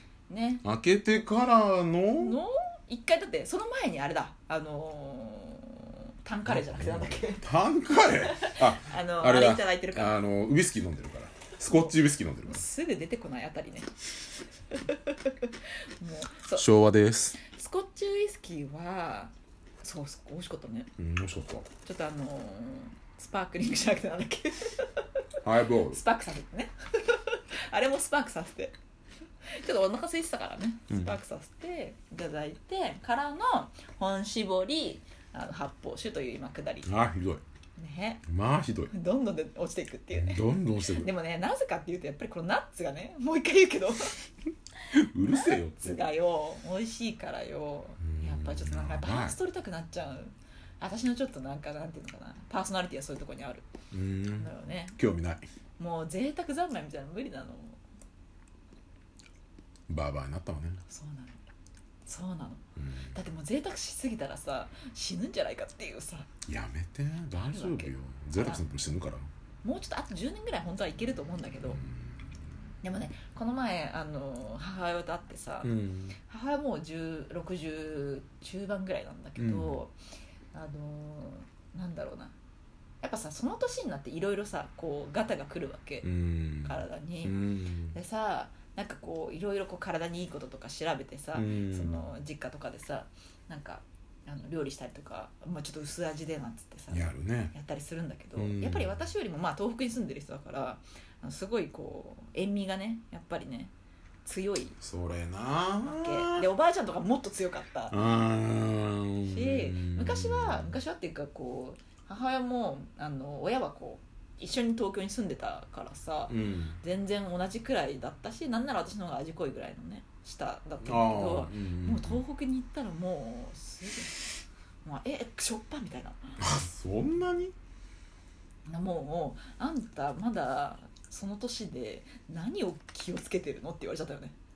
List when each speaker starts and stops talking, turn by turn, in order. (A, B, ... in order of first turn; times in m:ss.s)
0:00.3-0:00.6 A
0:00.6-0:02.4 B
0:02.2-0:10.2 A
0:06.5-0:12.6 B
0:11.7-0:13.9 A
0:14.7-0:16.7 A
0:16.6-0:17.4 B
0:17.4-0:19.3 A
0:19.8-0:20.9 A
0:21.0-0:21.7 B
0:21.8-0:25.0 A
0:25.4-0:26.0 B
0:25.9-0:28.8 A
0:29.5-0:36.9 A
0:30.9-0:31.2 B
0:36.8-0:37.4 B
0:37.8-0:38.2 A
0:38.3-0:38.9 B
0:38.9-0:44.2 A
0:40.1-0:41.1 B
0:44.9-0:46.0 B
0:45.2-0:53.7 A
0:48.0-0:49.4 B
0:53.9-0:55.4 B
0:54.4-0:55.0 A
0:55.8-0:57.8 A
0:59.9-1:00.8 B
1:00.9-1:01.4 A
1:02.1-1:06.3 A
1:02.8-1:03.2 B
1:06.5-1:09.3 B
1:07.4-1:08.6 A
1:09.6-1:11.8 A
1:11.8-1:12.2 B
1:12.8-1:20.0 A
1:15.6-1:16.2 B
1:19.4-1:19.8 B
1:20.5-1:22.4 A
1:23.0-1:26.1 A
1:26.0-1:28.0 B
1:26.6-1:43.7 A
1:31.3-1:32.0 B
1:36.9-1:37.5 B
1:38.4-1:39.0 B
1:44.2-1:44.8 A
1:44.8-1:46.5 B
1:45.8-1:48.0 A
1:47.9-1:50.8 B
1:49.2-2:04.2 A
1:56.3-1:56.8 B
2:00.8-2:02.2 B
2:04.8-2:06.4 A
2:06.4-2:07.6 B
2:08.7-2:14.4 A